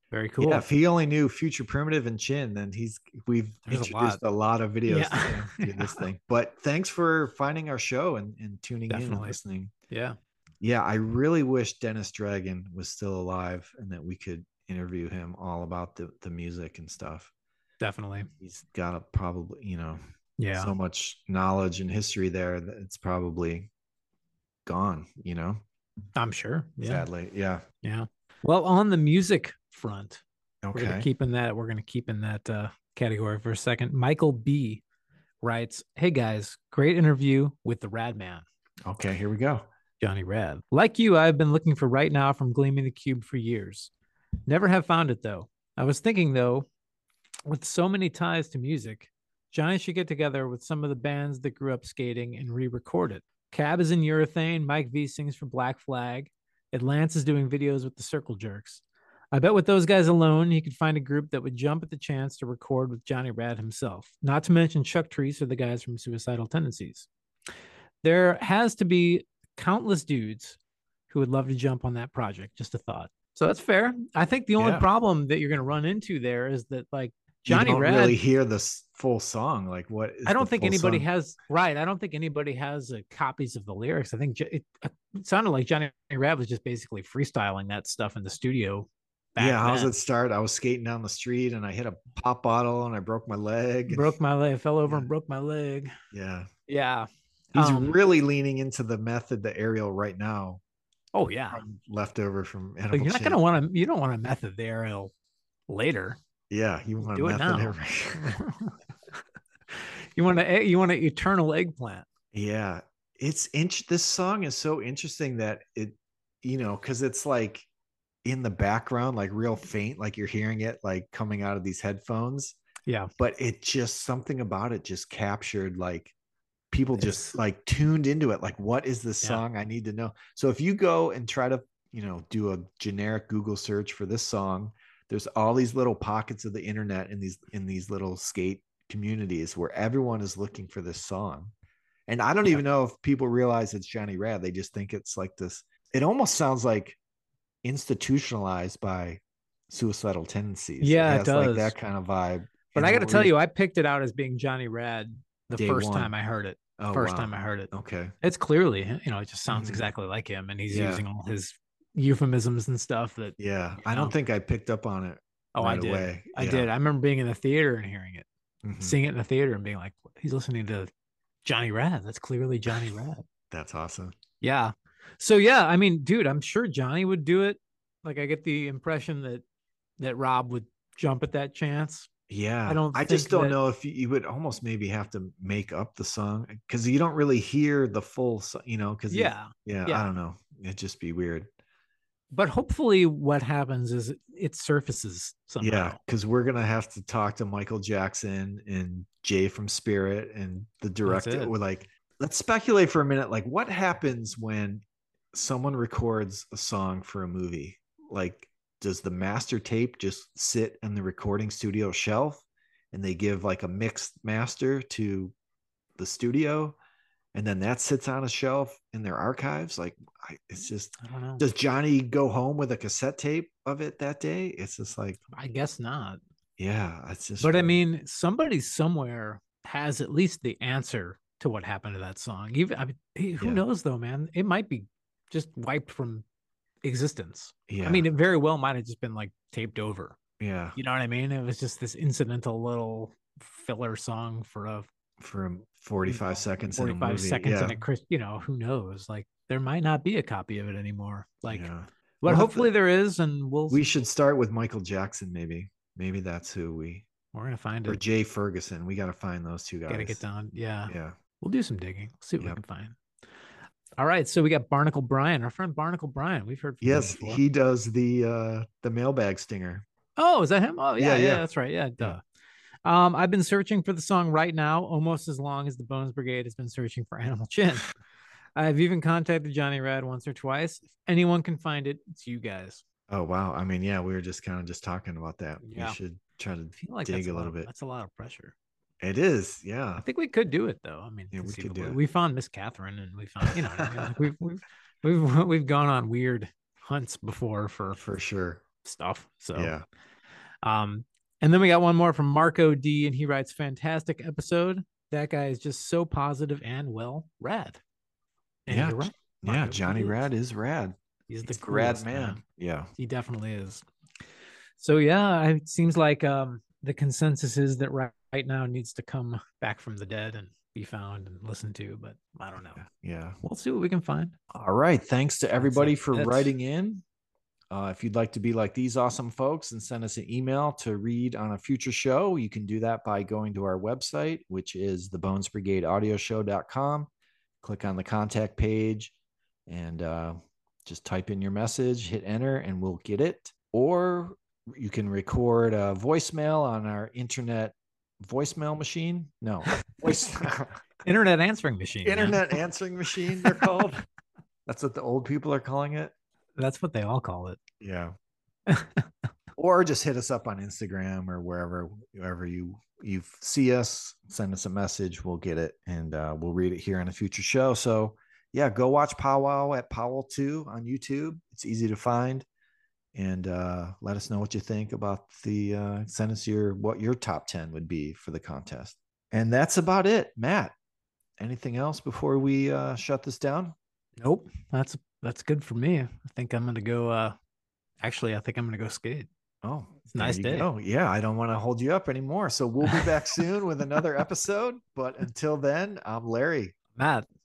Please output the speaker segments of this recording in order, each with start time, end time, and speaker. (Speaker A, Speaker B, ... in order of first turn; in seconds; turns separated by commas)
Speaker A: 0.1-0.6, Speaker B: 0.4-9.7, Speaker A: 3.7-4.2, Speaker A: 4.9-6.0, Speaker A: 8.9-9.4, Speaker A: 9.9-10.2, Speaker B: 10.6-17.3, Speaker A: 17.8-18.3, Speaker B: 18.4-20.0, Speaker A: 20.4-20.7, Speaker B: 20.5-23.7, Speaker B: 24.6-25.6, Speaker A: 26.1-27.1, Speaker B: 26.8-27.6, Speaker A: 27.8-30.2, Speaker B: 30.6-31.1, Speaker A: 30.7-34.8, Speaker A: 35.4-38.4, Speaker B: 38.8-39.7, Speaker A: 40.0-43.9, Speaker A: 44.5-46.7, Speaker A: 47.5-67.1, Speaker A: 68.0-70.6, Speaker A: 71.1-78.2, Speaker B: 74.6-74.8, Speaker B: 77.5-81.0, Speaker A: 80.2-89.9, Speaker B: 89.4-94.1, Speaker A: 93.9-95.9, Speaker B: 96.1-96.5, Speaker A: 96.7-98.0, Speaker B: 97.5-100.6, Speaker A: 101.1-101.6, Speaker B: 101.5-103.4, Speaker A: 102.9-105.1, Speaker A: 105.7-106.2, Speaker B: 106.5-108.4, Speaker A: 107.0-108.7, Speaker A: 109.7-112.0, Speaker B: 112.3-117.7, Speaker B: 118.2-122.6, Speaker A: 122.8-123.1, Speaker B: 123.2-126.1, Speaker B: 126.7-141.5, Speaker A: 127.0-127.3, Speaker B: 142.1-147.0, Speaker B: 147.6-153.3, Speaker A: 150.8-151.7, Speaker A: 152.7-157.7, Speaker B: 155.5-156.1, Speaker B: 156.8-158.1, Speaker A: 158.2-164.1, Speaker B: 159.5-159.9, Speaker B: 160.7-161.0, Speaker B: 163.4-166.7, Speaker A: 165.5-168.3, Speaker B: 168.6-169.0, Speaker A: 168.8-170.9, Speaker A: 171.4-173.2, Speaker B: 173.5-174.1, Speaker A: 174.4-179.4, Speaker A: 180.0-182.1, Speaker B: 182.3-191.5, Speaker A: 182.7-183.6, Speaker A: 189.1-190.1, Speaker A: 192.3-196.0, Speaker B: 195.6-215.3, Speaker A: 201.1-201.5, Speaker B: 216.0-216.8, Speaker B: 217.3-225.2, Speaker A: 221.0-221.4, Speaker A: 225.3-226.2, Speaker B: 226.6-227.8, Speaker A: 227.4-236.2, Speaker A: 236.8-240.2, Speaker B: 237.7-238.1, Speaker B: 240.4-240.8, Speaker A: 240.7-244.9, Speaker B: 245.2-247.8, Speaker A: 246.1-251.7, Speaker B: 251.5-252.7, Speaker A: 252.2-253.8, Speaker B: 253.7-257.1, Speaker A: 257.3-258.0, Speaker B: 257.9-260.2, Speaker A: 259.9-263.0, Speaker B: 260.9-261.1, Speaker A: 264.0-267.4, Speaker B: 266.8-269.8, Speaker A: 270.2-272.2, Speaker B: 271.0-271.4, Speaker A: 272.8-277.9, Speaker A: 278.6-282.8, Speaker B: 283.1-287.7, Speaker A: 285.6-286.0, Speaker A: 286.8-288.5, Speaker B: 289.0-290.0, Speaker A: 290.0-298.0, Speaker B: 291.3-292.0, Speaker B: 293.4-294.1, Speaker B: 297.9-298.6, Speaker A: 298.8-299.7, Speaker B: 299.5-299.8, Speaker A: 300.6-307.8, Speaker A: 308.7-310.2, Speaker B: 308.7-312.9, Speaker A: 311.3-312.4, Speaker A: 313.0-313.8, Speaker A: 314.8-322.8, Speaker B: 322.7-323.4, Speaker A: 323.4-324.3, Speaker B: 324.5-327.0, Speaker A: 325.6-326.5, Speaker B: 327.7-337.1, Speaker B: 337.6-339.1, Speaker B: 339.7-350.8, Speaker A: 351.0-352.4, Speaker B: 352.0-354.0, Speaker A: 353.4-353.7, Speaker B: 354.6-356.1, Speaker A: 356.6-357.6, Speaker B: 357.8-358.1, Speaker A: 358.7-359.1, Speaker B: 359.6-372.4, Speaker B: 373.1-380.7, Speaker B: 381.4-383.7, Speaker A: 384.2-387.4, Speaker A: 388.0-389.3, Speaker B: 389.6-396.8, Speaker A: 390.1-390.7, Speaker A: 396.9-397.2